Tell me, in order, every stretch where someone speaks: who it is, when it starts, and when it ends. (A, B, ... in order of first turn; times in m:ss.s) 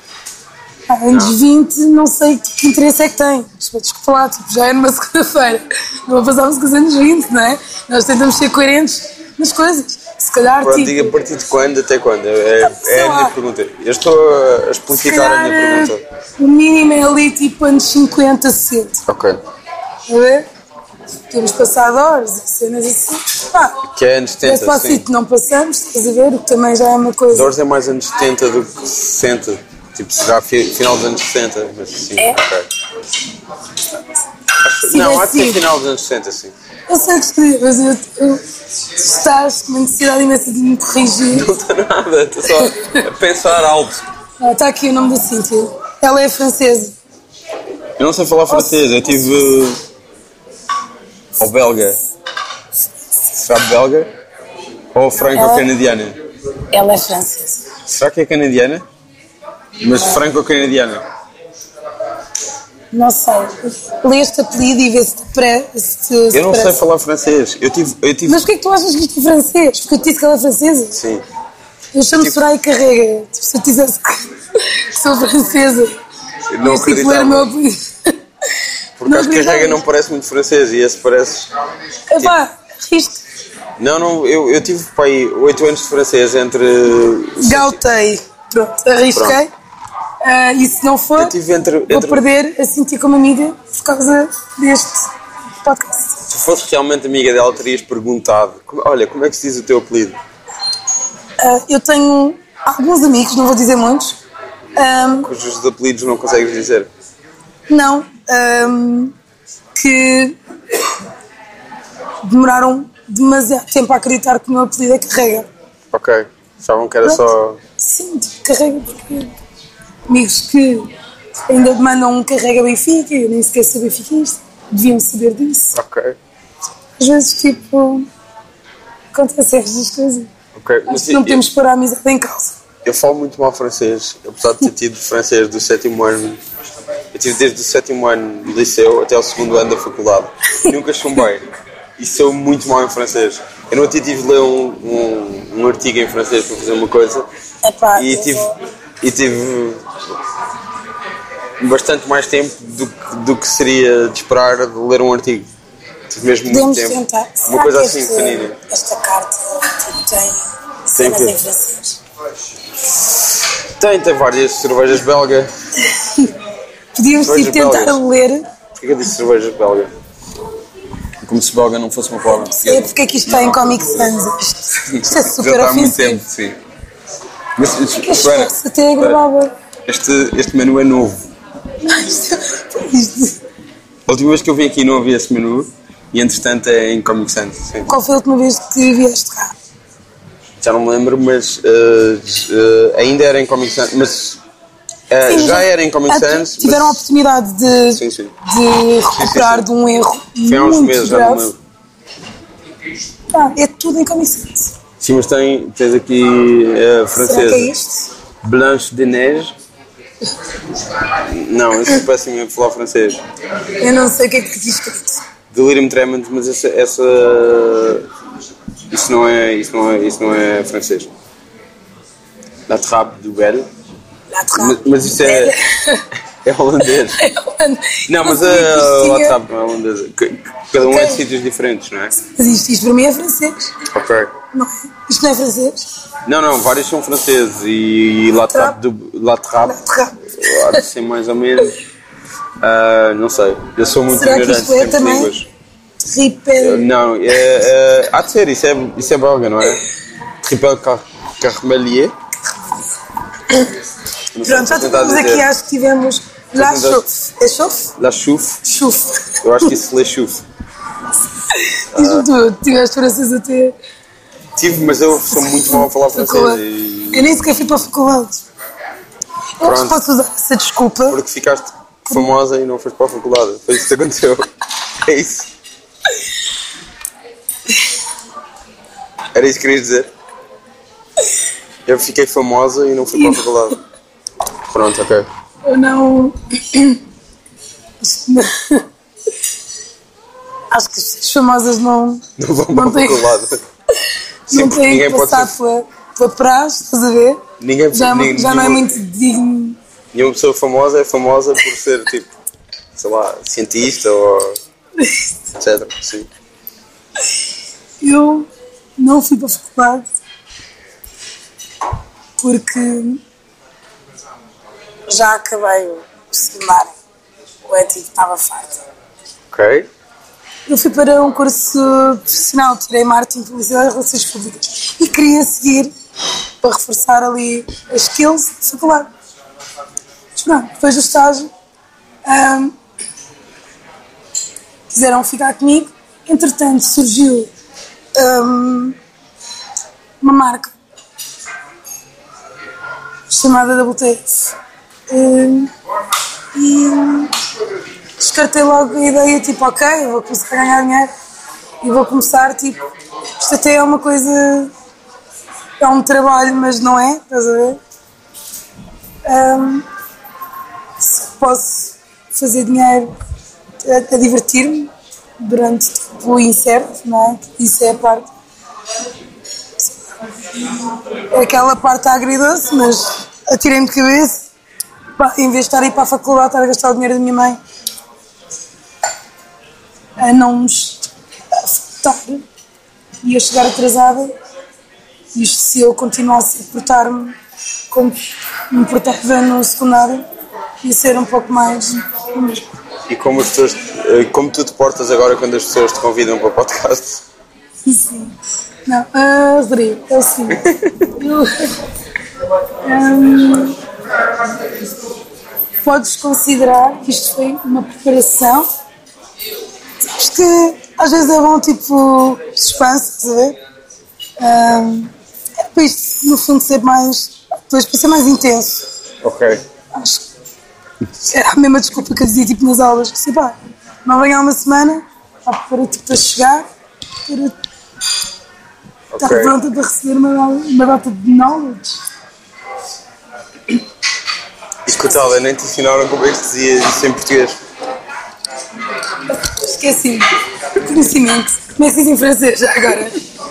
0:00.9-0:11.1 A
0:01.1-0:01.4 B
0:10.6-0:16.0 B
0:12.6-0:13.3 A
0:14.9-0:19.0 A
0:19.1-0:19.4 B
0:20.1-0:20.5 A
0:21.3-0:23.8 A
0:23.8-0:25.0 B
0:24.4-0:27.5 A
0:27.3-0:32.7 B
0:34.6-0:36.5 B
0:34.8-0:35.6 A
0:36.9-0:41.5 A
0:41.3-0:44.0 B
0:42.5-0:43.0 A
0:44.4-0:47.0 A
0:48.0-0:49.8 B
0:48.5-0:48.8 A
0:51.4-0:52.0 B
0:53.3-0:54.1 B
0:54.9-0:56.2 B
0:55.3-0:55.7 A
0:56.7-0:57.7 A
0:57.8-0:58.8 B
0:59.8-1:01.0 B
1:02.9-1:06.8 A
1:06.3-1:08.4 B
1:08.2-1:11.0 A
1:10.9-1:11.2 B
1:11.9-1:16.0 A
1:16.5-1:17.5 B
1:16.6-1:18.2 A
1:19.0-1:21.5 B
1:19.0-1:19.8 A
1:22.1-1:23.2 A
1:23.8-1:27.8 B
1:27.4-1:29.5 A
1:29.1-1:29.4 B
1:30.2-1:31.3 A
1:31.2-1:32.2 B
1:31.9-1:35.1 A
1:35.6-1:36.2 A
1:36.3-1:40.2 B
1:41.4-1:44.2 A
1:44.8-1:45.3 A
1:45.2-1:46.9 B
1:47.7-1:49.1 A
1:49.7-1:51.0 A
1:52.2-1:55.5 A
1:55.9-1:57.6 B
1:57.8-1:59.3 A
2:00.1-2:00.9 A
2:01.5-2:05.7 A
2:05.7-2:06.2 B
2:07.0-2:08.1 A
2:09.1-2:10.3 A
2:10.5-2:11.4 B
2:10.9-2:12.6 A
2:12.8-2:16.4 B
2:17.1-2:27.2 B
2:27.6-2:28.5 A
2:27.9-2:28.5 B
2:29.0-2:29.9 B
2:31.6-2:35.5 B
2:36.1-2:38.6 B
2:36.5-2:42.0 A
2:40.9-2:41.4 B
2:42.9-2:45.5 B
2:45.8-2:46.3 A
2:47.0-2:48.5 A
2:47.2-2:48.0 B
2:48.8-2:49.9 B
2:51.2-2:54.1 B
2:52.3-2:56.2 A
2:54.8-2:56.6 B
2:57.6-2:59.2 B
2:57.9-2:59.5 A
2:59.9-3:01.3 B
3:01.8-3:03.4 A
3:04.1-3:07.9 B
3:07.8-3:09.5 A
3:10.6-3:14.4 B
3:15.1-3:17.0 B
3:15.2-3:21.5 A
3:17.9-3:18.3 B
3:19.1-3:19.7 B
3:20.4-3:21.6 B
3:23.3-3:24.8 A
3:25.0-3:27.7 B
3:27.1-3:28.1 A
3:28.4-3:29.5 B
3:31.1-3:33.2 B
3:33.8-3:35.2 A
3:35.5-3:38.1 B
3:38.9-3:41.1 B
3:42.7-3:43.7 B
3:44.3-3:46.0 A
3:44.5-3:45.5 B
3:46.4-3:47.2 B
3:46.8-3:49.4 A
3:48.0-3:52.1 B
3:50.8-3:51.2 A
3:52.2-3:53.8 A
3:53.9-3:54.3 B
3:54.5-3:55.9 A
3:56.2-3:59.8 B
3:58.5-3:58.8 A
3:59.6-4:00.8 A
4:00.3-4:01.8 B
4:02.6-4:05.5 B
4:04.1-4:05.3 A
4:06.0-4:06.9 A
4:06.6-4:09.8 B
4:10.4-4:12.1 B
4:14.3-4:15.5 B
4:14.4-4:17.9 A
4:16.6-4:17.0 B
4:18.0-4:18.6 B
4:18.6-4:19.7 A
4:19.4-4:20.4 B
4:21.5-4:23.8 A
4:21.9-4:22.3 B
4:24.6-4:27.5 B
4:25.3-4:28.4 A
4:29.6-4:31.2 A
4:29.6-4:30.0 B
4:31.1-4:34.5 B
4:35.0-4:35.5 B
4:39.3-4:40.1 B
4:41.8-4:43.8 B
4:43.2-4:43.4 A
4:44.7-4:45.3 B
4:45.6-4:47.0 A
4:48.0-4:48.8 A
4:50.7-4:53.3 A
4:52.4-4:53.6 B
4:54.5-4:55.5 B
4:54.5-4:59.8 A
4:57.6-4:58.8 B
5:00.1-5:02.3 B
5:02.9-5:04.6 B
5:05.0-5:05.3 A
5:05.6-5:06.3 B
5:08.0-5:10.1 A
5:12.4-5:13.2 A
5:15.1-5:17.0 A
5:17.7-5:18.8 A
5:19.5-5:19.9 B
5:20.7-5:25.9 A
5:26.6-5:29.1 A
5:30.3-5:31.5 A
5:32.2-5:32.7 A
5:34.9-5:37.5 A
5:38.2-5:39.0 A
5:40.2-5:40.7 A
5:43.3-5:44.6 A
5:45.1-5:45.7 A
5:46.5-5:47.3 A
5:48.2-5:51.1 A
5:51.8-5:52.8 A
5:53.4-5:54.7 A
5:55.8-5:57.8 A
5:59.2-5:59.8 A
6:01.0-6:03.1 A
6:03.8-6:08.3 A
6:11.3-6:14.5 A
6:15.2-6:17.6 A
6:20.2-6:22.4 A
6:23.2-6:24.3 A
6:25.3-6:27.4 A
6:27.9-6:28.2 A
6:28.7-6:30.2 A
6:30.8-6:32.7 A
6:33.1-6:37.2 B
6:37.8-6:38.3 A
6:38.8-6:41.8 A
6:40.5-6:41.1 B
6:42.8-6:43.8 A
6:45.8-6:48.7 A
6:50.0-6:53.6 A
6:54.4-6:58.8 A
6:59.2-6:59.6 B
6:59.9-7:00.2 A
7:01.2-7:06.7 A
7:07.2-7:07.6 A
7:09.1-7:09.6 B
7:09.2-7:12.0 A
7:14.8-7:17.6 B
7:19.3-7:23.2 A